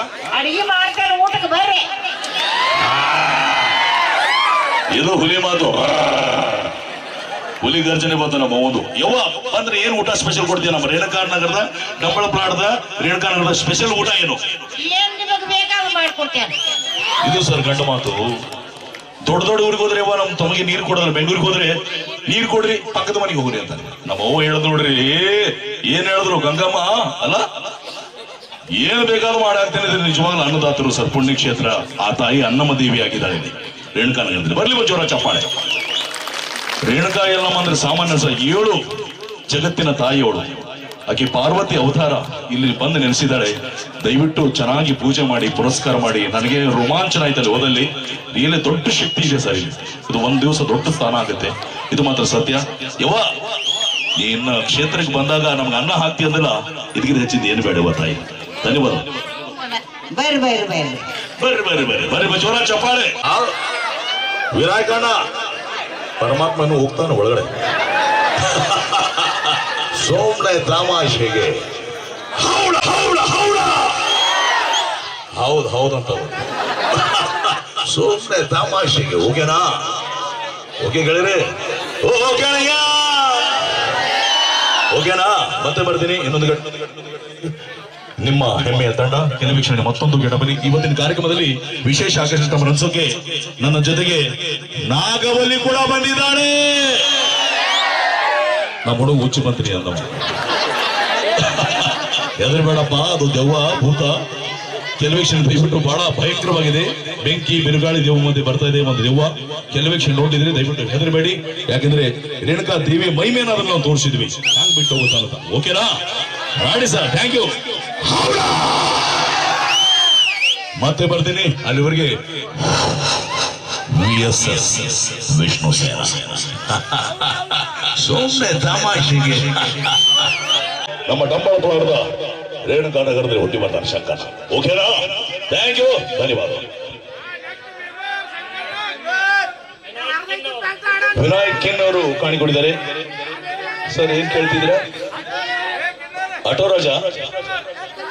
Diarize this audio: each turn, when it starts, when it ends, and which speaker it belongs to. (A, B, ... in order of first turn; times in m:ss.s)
0:00.3-0:01.8 A
0:04.9-0:06.7 B
0:07.6-0:14.4 B
0:14.8-0:16.5 A
0:17.2-0:18.4 B
0:19.2-0:27.4 B
0:28.7-0:35.5 B
0:36.8-0:38.8 B
0:39.5-0:53.3 B
0:54.2-0:59.1 B
0:59.5-1:01.0 A
1:01.4-1:03.5 B
1:04.5-1:05.2 B
1:06.2-1:07.5 B
1:08.4-1:11.6 B
1:12.3-1:14.0 B
1:15.3-1:19.8 B
1:20.8-1:23.8 B
1:24.9-1:26.8 B
1:28.2-1:37.1 B
1:38.8-1:40.2 B
1:41.4-1:44.2 B
1:45.0-1:59.1 B
2:00.8-2:03.0 B
2:03.9-2:09.9 B
2:11.0-2:12.0 B
2:12.6-2:16.7 B
2:21.1-2:22.8 B
2:23.9-2:24.8 B
2:26.4-2:27.3 B